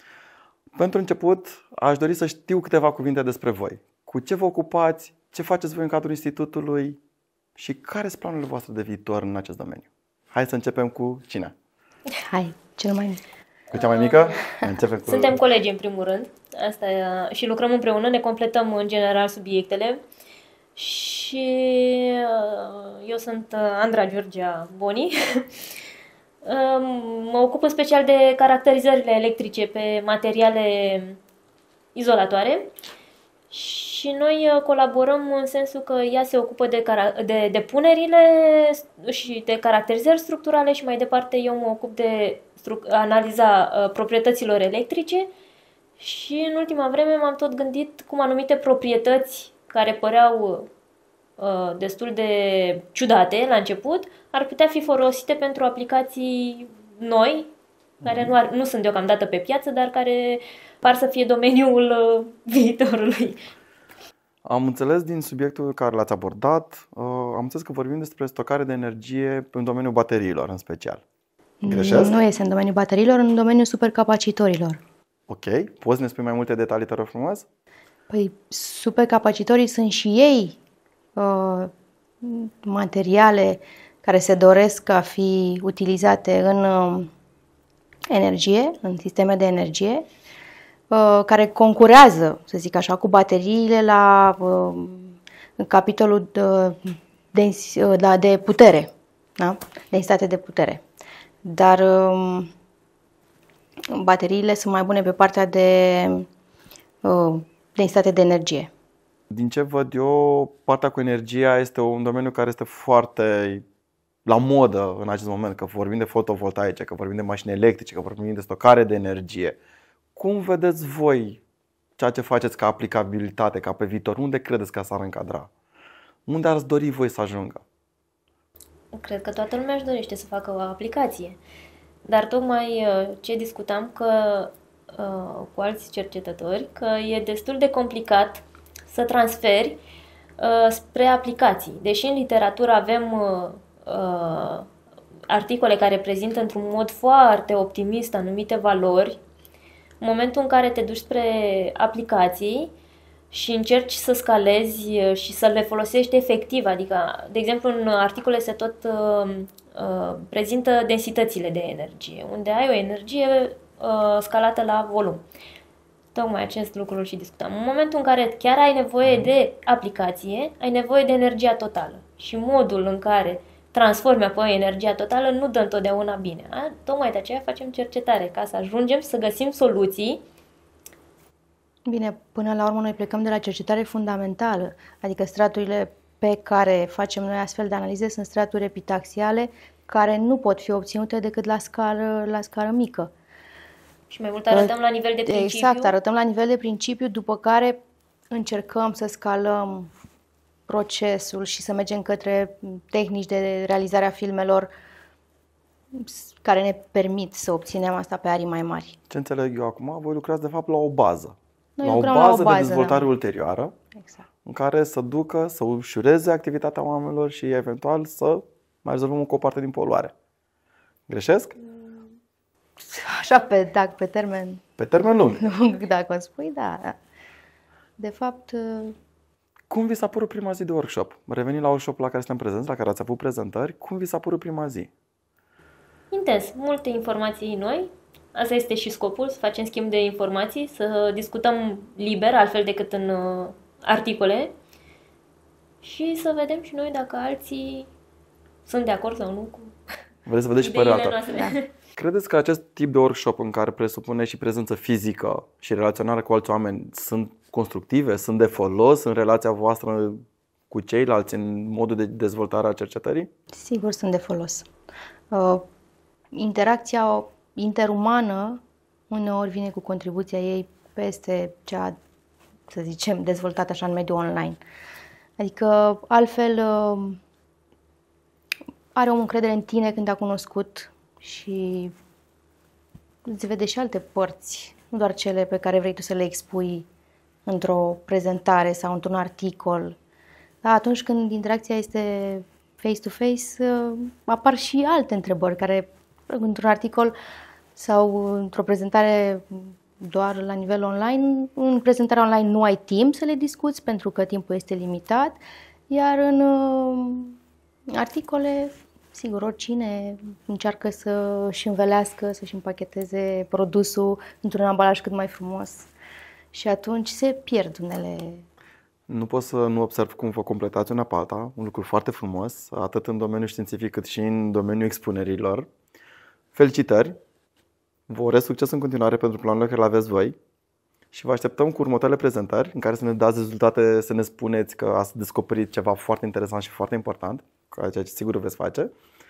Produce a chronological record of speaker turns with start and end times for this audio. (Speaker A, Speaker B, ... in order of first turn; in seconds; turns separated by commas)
Speaker A: 0.7-7.0, Speaker A: 7.5-11.5, Speaker B: 12.3-13.2, Speaker C: 13.7-14.5, Speaker A: 13.7-15.4, Speaker C: 15.0-20.0, Speaker C: 20.8-25.5, Speaker C: 26.4-31.2, Speaker C: 31.9-32.7, Speaker C: 33.5-45.3, Speaker C: 46.0-50.7, Speaker C: 51.4-63.4, Speaker A: 58.0-58.4, Speaker A: 64.5-71.0, Speaker B: 71.6-74.8, Speaker A: 71.7-72.2, Speaker A: 75.3-77.5, Speaker B: 78.1-80.5, Speaker B: 81.2-81.7, Speaker B: 82.2-87.1, Speaker B: 88.1-90.1, Speaker B: 90.9-100.8, Speaker B: 101.4-102.5, Speaker B: 103.9-106.3, Speaker B: 107.0-108.7, Speaker A: 109.3-113.6, Speaker A: 114.2-119.6, Speaker A: 120.2-121.4, Speaker A: 122.0-125.5, Speaker A: 126.3-127.6, Speaker C: 128.9-131.4, Speaker C: 132.1-139.8, Speaker C: 140.4-144.7, Speaker C: 145.3-149.2, Speaker C: 150.0-152.7, Speaker C: 153.3-165.2, Speaker C: 166.1-180.2, Speaker A: 169.0-169.3, Speaker B: 181.8-193.1, Speaker C: 194.1-195.9, Speaker B: 194.5-197.8, Speaker B: 198.3-199.9, Speaker B: 200.7-204.7, Speaker B: 205.9-209.0, Speaker A: 209.1-213.7, Speaker B: 211.8-213.1, Speaker B: 213.9-214.2, Speaker A: 214.4-220.1, Speaker A: 221.1-221.5, Speaker B: 222.8-224.6, Speaker A: 224.8-225.4, Speaker B: 225.3-226.9, Speaker B: 228.0-228.9, Speaker A: 229.7-234.9, Speaker C: 236.1-244.5, Speaker C: 245.8-247.9, Speaker C: 248.6-249.7, Speaker A: 250.2-251.2, Speaker C: 250.6-251.7, Speaker A: 251.9-263.3, Speaker B: 263.5-264.6, Speaker B: 265.3-265.6, Speaker B: 266.3-271.9, Speaker B: 272.7-274.6, Speaker B: 275.4-277.2, Speaker B: 278.9-281.9, Speaker B: 283.2-286.9, Speaker B: 287.4-290.0, Speaker B: 290.6-297.1, Speaker B: 297.8-305.4, Speaker B: 305.9-307.4, Speaker B: 307.9-315.9, Speaker B: 316.5-318.4, Speaker A: 319.1-325.7, Speaker A: 326.5-327.2, Speaker A: 328.1-330.3, Speaker A: 331.1-338.9